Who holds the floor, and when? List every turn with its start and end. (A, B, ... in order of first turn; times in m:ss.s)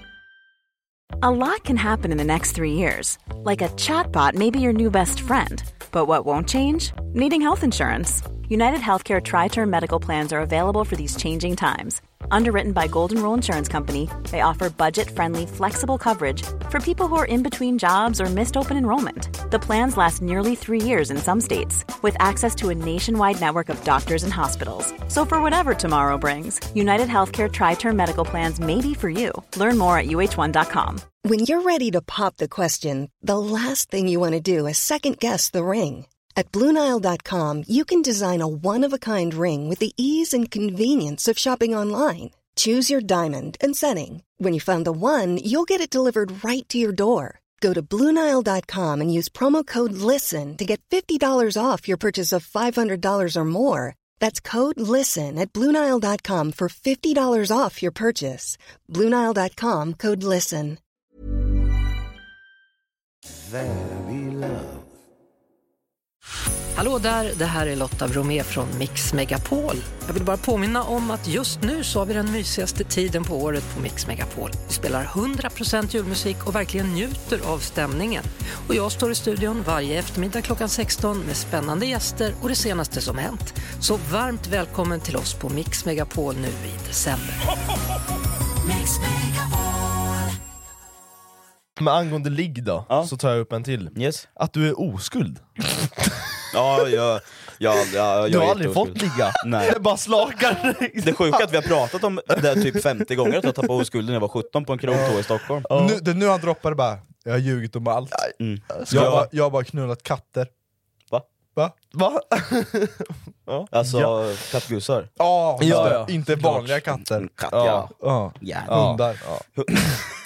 0:01.2-0:31.0 A
0:31.2-1:00.8 B
1:06.8-1:27.4 C
1:31.8-1:35.7 D
1:33.9-1:34.2 E
1:36.5-1:39.7 E
1:38.3-1:41.5 D
1:41.0-1:45.7 E
1:42.4-1:42.8 D
1:44.9-1:45.2 F
1:45.7-1:46.0 D
1:45.7-1:48.2 F
1:48.1-1:49.3 D
1:48.4-1:49.3 E
1:48.9-1:50.5 F
1:51.9-1:54.2 D
1:53.7-1:58.8 E
1:55.2-1:57.3 F
1:55.6-1:56.2 D
1:57.5-1:57.9 D
1:58.0-1:59.2 F
1:58.7-1:59.4 D
1:59.6-1:59.9 E